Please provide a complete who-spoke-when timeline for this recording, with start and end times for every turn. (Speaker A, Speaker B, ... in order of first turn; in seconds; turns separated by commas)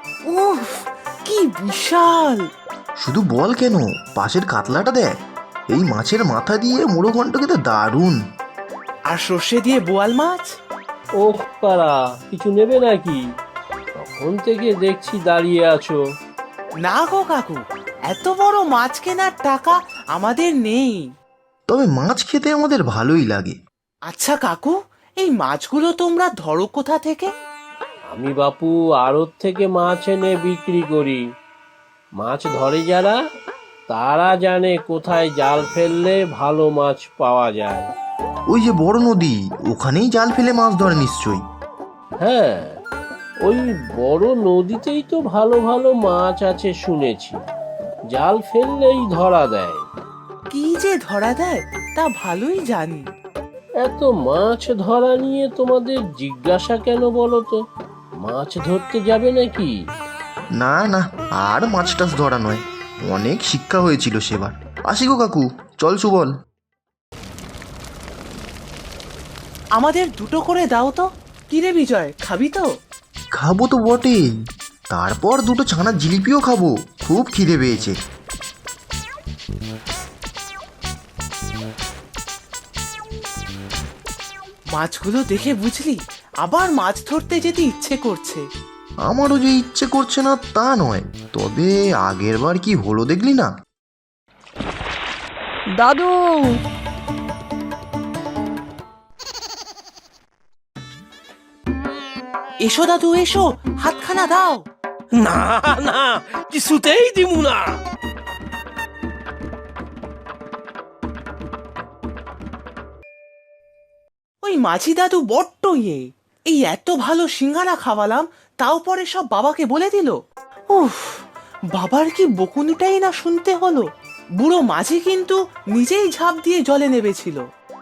Speaker A: 0.2-2.5, Speaker B: 3.0-5.1, Speaker B: 5.7-8.2, Speaker A: 9.1-10.5, Speaker C: 11.2-13.2, Speaker C: 14.0-16.0, Speaker A: 16.9-21.1, Speaker B: 21.7-23.6, Speaker A: 24.1-27.3, Speaker C: 28.1-31.2, Speaker C: 32.2-33.2, Speaker C: 33.9-37.9, Speaker B: 38.5-41.4, Speaker C: 42.2-42.8, Speaker C: 43.4-47.4, Speaker C: 48.1-49.9, Speaker A: 50.5-53.1, Speaker C: 53.8-57.6, Speaker C: 58.2-59.7, Speaker B: 60.6-66.3, Speaker A: 69.8-72.7, Speaker B: 73.3-74.2, Speaker B: 74.9-78.0, Speaker A: 84.8-88.5, Speaker B: 89.1-93.5, Speaker A: 102.6-104.7, Speaker C: 105.1-107.8, Speaker A: 114.4-120.2, Speaker A: 120.7-121.2, Speaker A: 121.8-123.9, Speaker A: 124.4-127.4